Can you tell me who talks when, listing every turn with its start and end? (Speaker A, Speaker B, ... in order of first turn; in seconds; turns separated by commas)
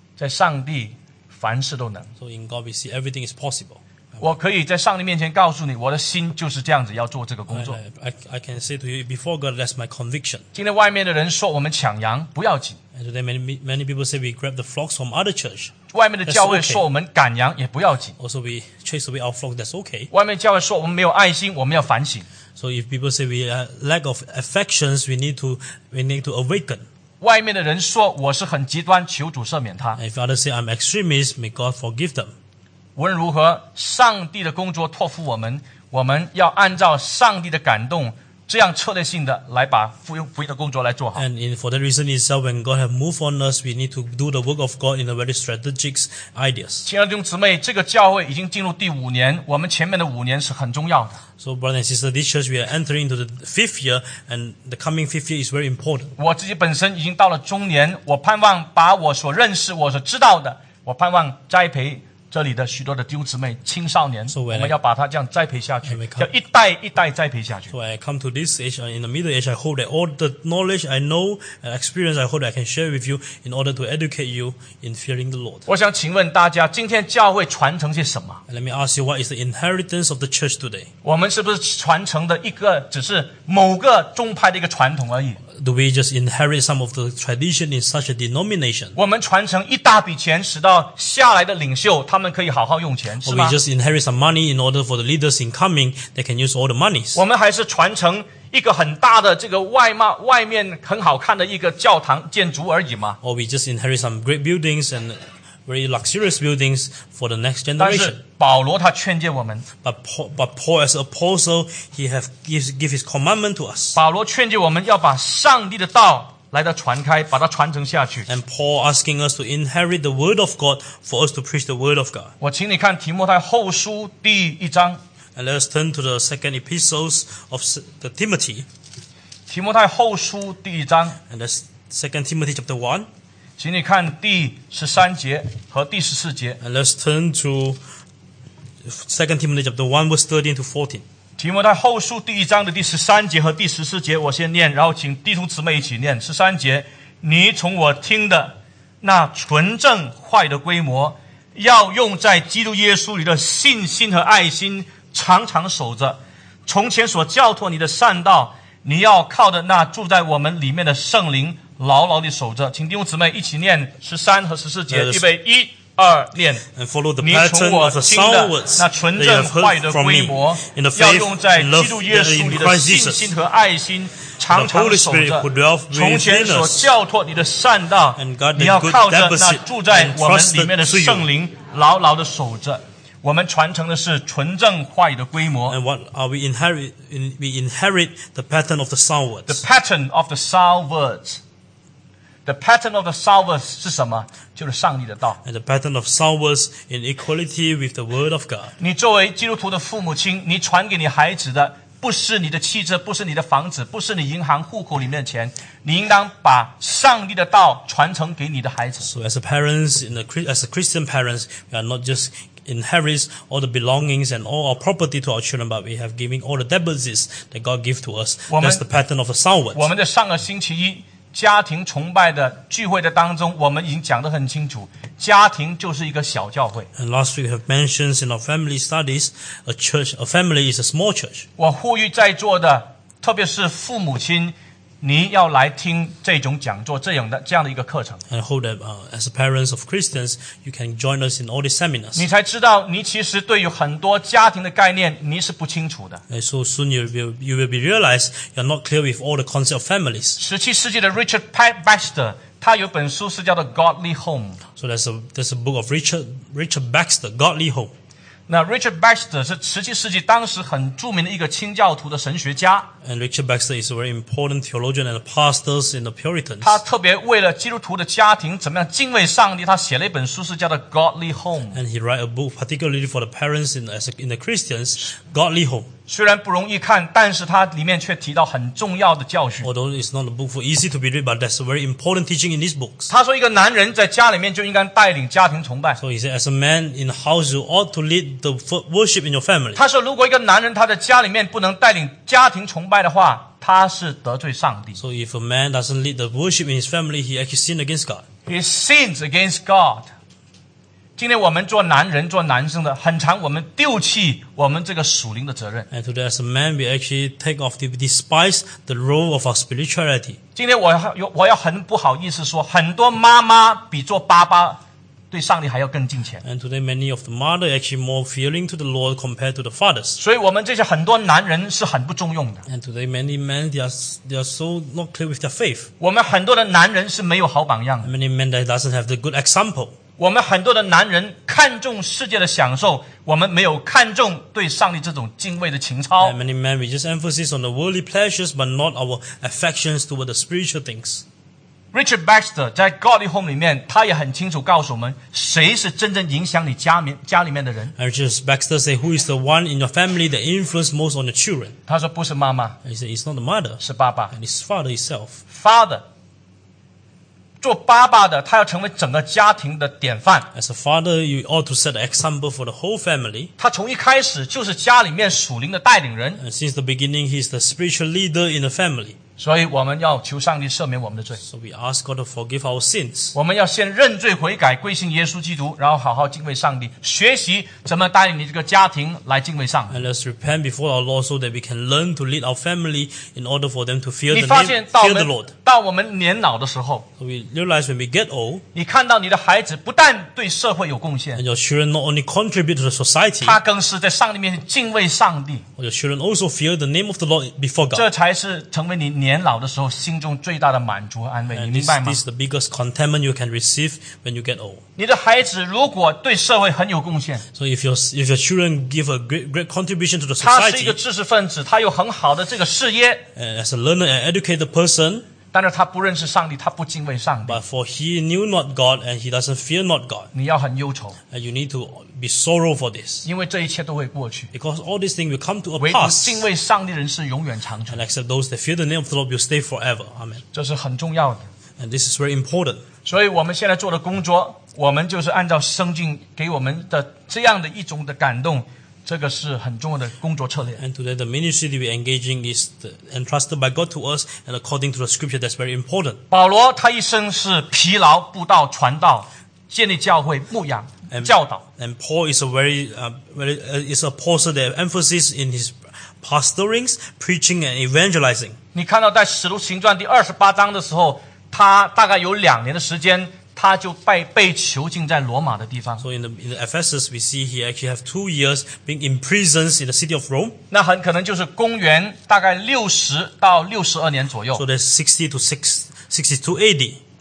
Speaker A: 0.2-2.1, Speaker B: 2.2-4.2, Speaker A: 4.2-7.8, Speaker B: 7.5-10.4, Speaker A: 10.5-12.8, Speaker B: 12.9-15.7, Speaker A: 15.9-18.1, Speaker B: 16.3-16.8, Speaker B: 18.2-20.1, Speaker A: 20.1-22.3, Speaker B: 22.6-26.9, Speaker A: 27.2-30.0, Speaker B: 29.9-32.3, Speaker A: 33.0-41.2, Speaker B: 41.1-46.9, Speaker A: 46.8-51.2, Speaker B: 51.4-56.1, Speaker A: 56.2-67.7, Speaker B: 64.3-64.7, Speaker B: 65.8-66.3, Speaker B: 67.7-75.7, Speaker A: 75.7-78.4, Speaker B: 78.5-80.9, Speaker A: 81.0-85.4, Speaker B: 85.5-89.0, Speaker A: 89.0-93.6, Speaker B: 93.2-97.2, Speaker A: 97.1-103.2, Speaker B: 103.2-108.2, Speaker A: 107.8-109.7, Speaker B: 109.8-114.0, Speaker A: 114.0-118.3, Speaker B: 118.3-122.3, Speaker A: 122.4-125.0, Speaker B: 125.3-128.7, Speaker A: 129.5-131.2, Speaker B: 131.3-133.1, Speaker A: 133.6-136.6, Speaker B: 136.6-137.8, Speaker B: 138.8-141.0, Speaker A: 141.4-166.7, Speaker B: 164.9-165.2, Speaker B: 166.7-173.3, Speaker A: 167.2-185.8, Speaker B: 174.5-176.9, Speaker B: 178.2-181.3, Speaker B: 185.7-189.6, Speaker A: 189.5-191.4, Speaker A: 192.4-195.4, Speaker B: 195.4-198.7, Speaker A: 198.8-209.1, Speaker B: 209.0-219.8, Speaker A: 218.5-218.8, Speaker A: 219.7-226.9, Speaker B: 226.9-231.4, Speaker A: 231.6-238.2, Speaker B: 238.3-242.2, Speaker A: 242.1-246.2, Speaker B: 246.3-250.4, Speaker A: 250.4-254.6, Speaker B: 254.8-257.9, Speaker A: 258.5-262.9, Speaker B: 263.0-266.8, Speaker A: 266.6-271.8, Speaker B: 271.7-275.9, Speaker A: 276.1-279.7, Speaker B: 279.6-283.1, Speaker A: 283.1-286.0, Speaker B: 286.0-289.8, Speaker A: 289.8-295.0, Speaker B: 295.0-298.2, Speaker A: 298.4-300.1, Speaker A: 301.2-305.9, Speaker B: 305.9-310.4, Speaker A: 310.6-316.4, Speaker B: 316.4-320.2, Speaker A: 320.2-322.6, Speaker B: 322.6-325.9, Speaker A: 326.0-328.1, Speaker B: 328.0-329.9, Speaker A: 330.2-336.4, Speaker B: 336.2-341.2, Speaker A: 341.9-347.9, Speaker B: 347.9-351.7, Speaker A: 351.9-352.8, Speaker B: 352.8-355.4, Speaker A: 353.8-354.3, Speaker A: 355.5-356.0, Speaker A: 357.6-360.5, Speaker B: 360.5-363.5, Speaker A: 363.6-366.4, Speaker B: 366.4-369.1, Speaker A: 369.4-371.4, Speaker B: 371.4-373.3, Speaker A: 373.3-380.0, Speaker B: 379.9-385.5, Speaker A: 384.3-387.1, Speaker B: 387.2-388.6, Speaker A: 388.7-391.4, Speaker B: 391.4-393.6, Speaker A: 393.4-395.6, Speaker B: 395.8-398.1, Speaker A: 397.9-402.2, Speaker B: 401.5-404.8, Speaker A: 405.0-407.4, Speaker B: 407.5-411.0, Speaker A: 410.4-413.2, Speaker B: 413.4-415.2, Speaker A: 415.5-417.6, Speaker B: 417.4-420.3, Speaker A: 420.3-421.2, Speaker B: 421.3-423.3, Speaker A: 423.2-424.5, Speaker B: 424.5-426.4, Speaker A: 425.8-428.0, Speaker B: 427.9-430.4, Speaker A: 430.5-431.4, Speaker B: 431.8-432.8, Speaker A: 433.0-440.8, Speaker B: 440.8-446.2, Speaker A: 446.3-451.6, Speaker B: 451.1-458.6, Speaker A: 458.7-466.0, Speaker B: 466.0-470.6, Speaker A: 470.7-474.6, Speaker B: 474.5-477.0